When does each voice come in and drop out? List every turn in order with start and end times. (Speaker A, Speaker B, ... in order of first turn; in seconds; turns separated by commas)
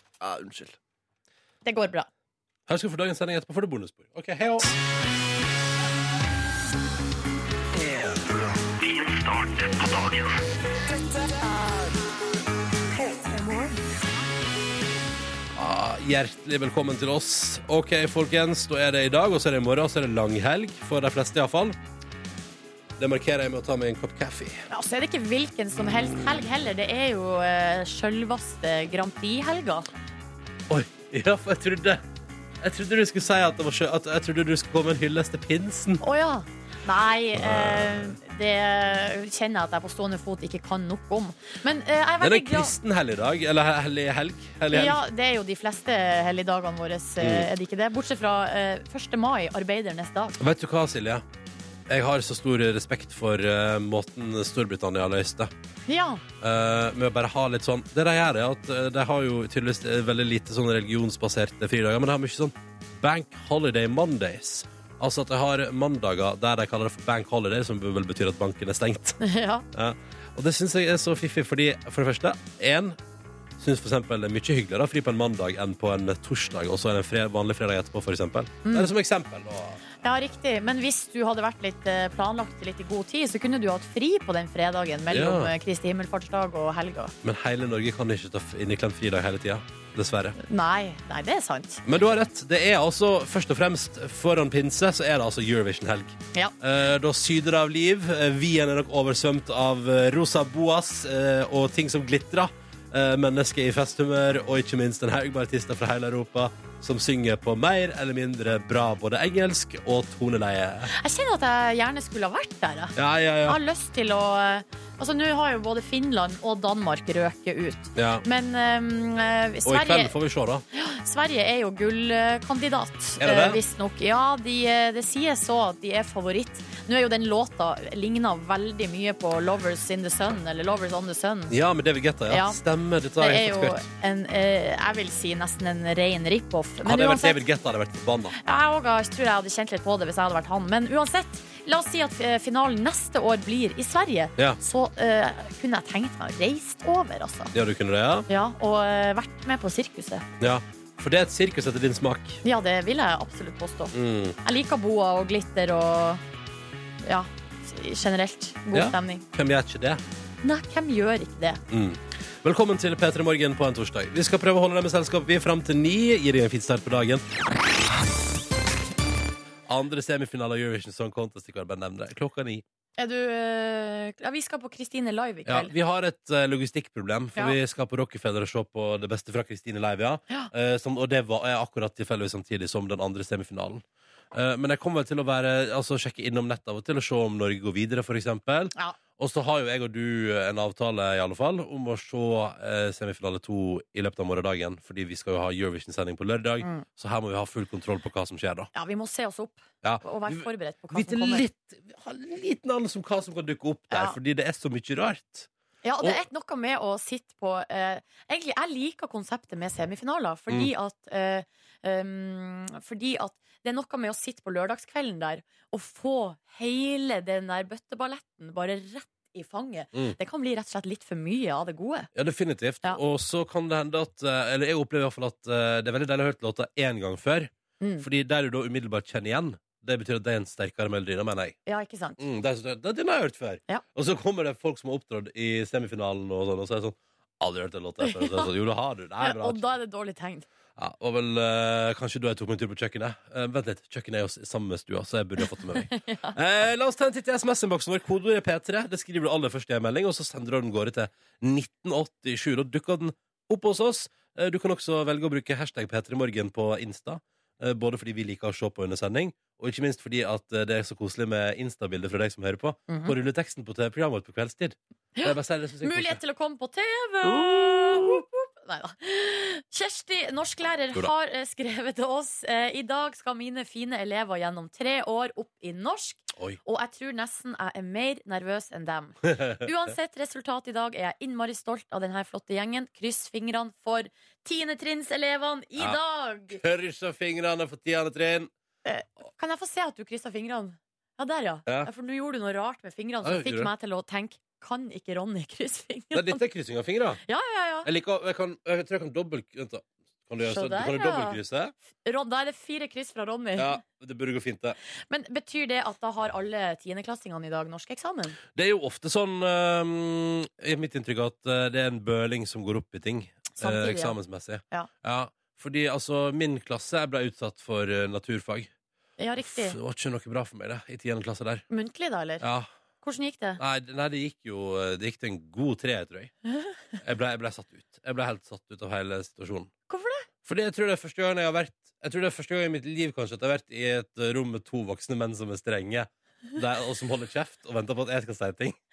Speaker A: 0.2-0.8, Speaker B: 1.6-2.1, Speaker A: 2.7-4.7, Speaker A: 7.8-10.2, Speaker A: 15.6-21.8, Speaker A: 23.0-24.7, Speaker B: 24.7-29.9, Speaker A: 30.7-32.0, Speaker A: 32.6-36.0, Speaker B: 36.0-42.7, Speaker A: 37.4-38.2, Speaker A: 42.2-45.0, Speaker B: 44.7-50.4, Speaker A: 47.2-47.5, Speaker A: 50.4-51.2, Speaker A: 51.9-55.5, Speaker B: 55.9-56.2, Speaker A: 56.4-69.2, Speaker B: 69.2-69.7, Speaker A: 69.7-73.0, Speaker A: 73.6-79.8, Speaker B: 78.7-78.9, Speaker B: 80.0-87.1, Speaker A: 85.1-85.5, Speaker A: 87.2-90.4, Speaker B: 90.4-91.8, Speaker A: 91.8-110.9, Speaker B: 110.9-120.1, Speaker A: 113.0-113.6, Speaker A: 118.0-118.2, Speaker A: 119.7-120.7, Speaker B: 120.7-131.6, Speaker A: 123.2-123.6, Speaker A: 131.5-133.8, Speaker B: 132.3-132.6, Speaker B: 133.2-137.4, Speaker A: 136.8-138.4, Speaker B: 138.4-147.5, Speaker A: 147.5-148.3, Speaker B: 148.3-150.2, Speaker A: 150.4-152.4, Speaker B: 152.4-156.2, Speaker A: 153.9-154.4, Speaker B: 157.0-159.2, Speaker A: 158.7-160.0, Speaker B: 160.4-161.6, Speaker A: 161.7-167.8, Speaker A: 169.7-172.6, Speaker B: 173.0-175.7, Speaker A: 175.5-198.7, Speaker B: 198.7-201.4, Speaker A: 199.8-205.5, Speaker B: 203.9-204.2, Speaker B: 205.8-222.1, Speaker A: 222.1-231.6, Speaker B: 231.7-232.2, Speaker A: 232.2-239.6, Speaker B: 238.0-238.5, Speaker B: 239.2-240.5, Speaker A: 240.8-266.2, Speaker B: 245.8-246.4, Speaker B: 262.9-263.1, Speaker B: 265.2-286.6, Speaker A: 267.2-268.2, Speaker A: 286.5-288.5, Speaker B: 288.9-296.4, Speaker A: 293.2-293.7, Speaker A: 296.1-297.2, Speaker B: 297.3-297.9, Speaker A: 297.9-301.7, Speaker B: 300.4-301.4, Speaker B: 302.0-303.8, Speaker A: 303.6-304.8, Speaker B: 305.1-308.4, Speaker A: 308.6-318.7, Speaker B: 313.6-314.2, Speaker B: 319.2-319.8, Speaker A: 319.4-321.6, Speaker B: 321.7-322.4, Speaker A: 322.4-322.7, Speaker B: 323.0-323.6, Speaker A: 323.6-326.3, Speaker A: 327.0-329.7, Speaker B: 329.9-330.3, Speaker A: 330.4-338.8